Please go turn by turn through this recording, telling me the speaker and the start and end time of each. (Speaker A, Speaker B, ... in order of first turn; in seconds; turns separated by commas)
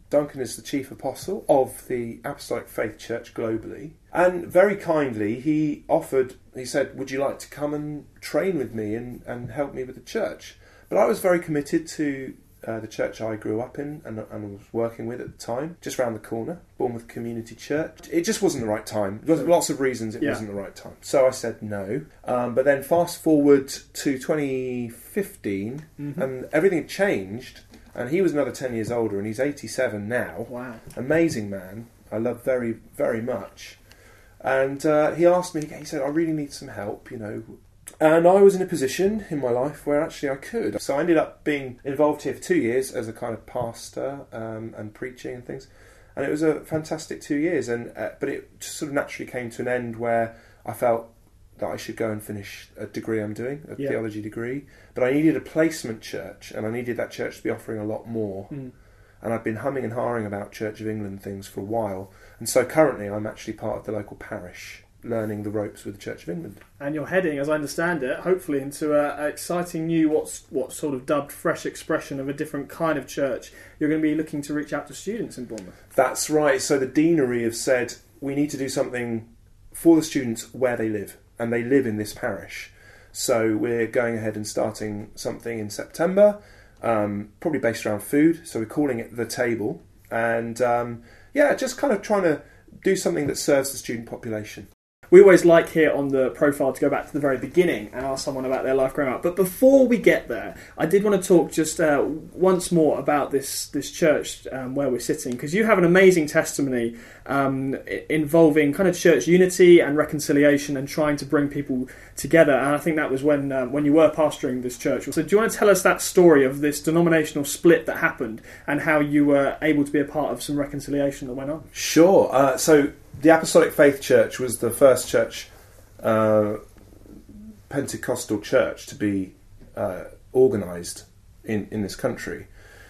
Speaker A: 0.1-33.8, Speaker B: 26.0-26.3, Speaker B: 30.5-30.8, Speaker A: 34.4-58.5, Speaker A: 59.2-66.6, Speaker B: 66.8-75.8, Speaker A: 75.9-94.7, Speaker B: 95.1-121.7, Speaker A: 121.7-125.5, Speaker A: 126.0-126.6, Speaker A: 127.7-132.5